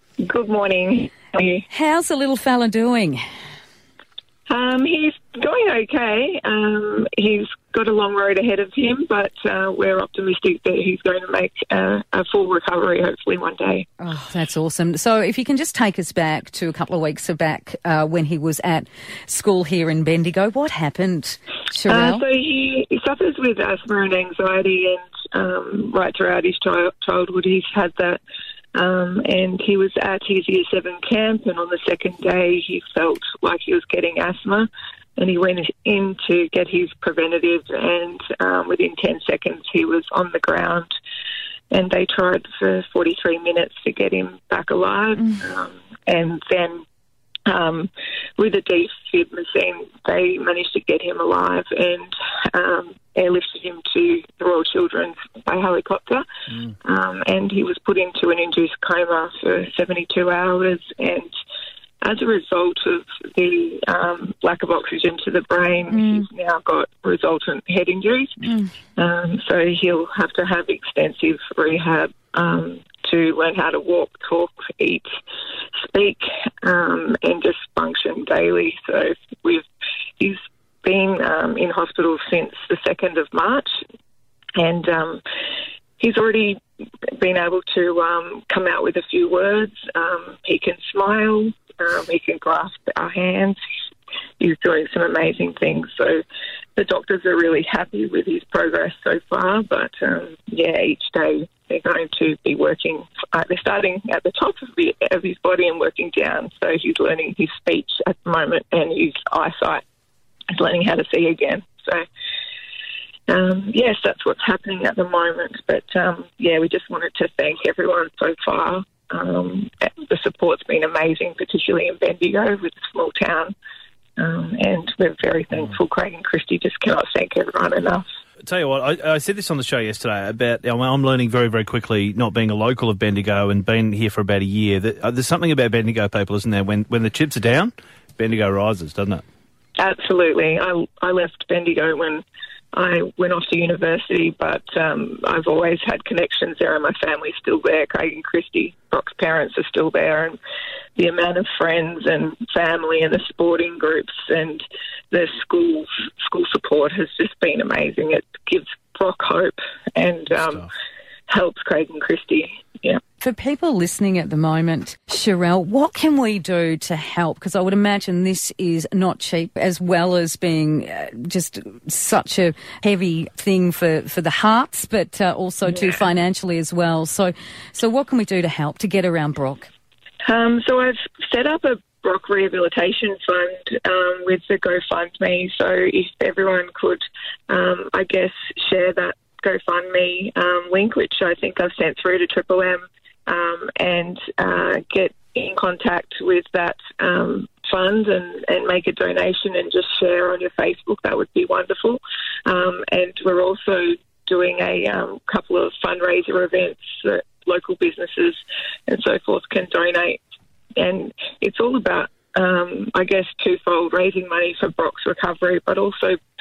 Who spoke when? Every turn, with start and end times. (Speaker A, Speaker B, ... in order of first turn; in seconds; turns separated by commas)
Speaker A: 0.2-1.7, Speaker B: 1.7-3.2, Speaker A: 4.5-13.9, Speaker B: 14.0-22.2, Speaker A: 21.9-28.2, Speaker A: 28.8-40.9, Speaker A: 41.7-46.8, Speaker A: 47.5-61.3, Speaker A: 62.0-75.1, Speaker B: 65.9-66.2, Speaker A: 75.9-79.7, Speaker A: 80.2-83.7, Speaker A: 84.6-85.2, Speaker A: 86.0-93.6, Speaker A: 94.4-96.2, Speaker A: 96.8-109.8, Speaker A: 110.5-112.0, Speaker A: 113.3-123.5, Speaker A: 124.2-128.1, Speaker C: 128.4-139.2, Speaker A: 139.8-150.4, Speaker A: 151.0-160.7, Speaker A: 161.3-163.0, Speaker B: 163.2-179.7, Speaker A: 180.2-210.2, Speaker A: 210.8-216.2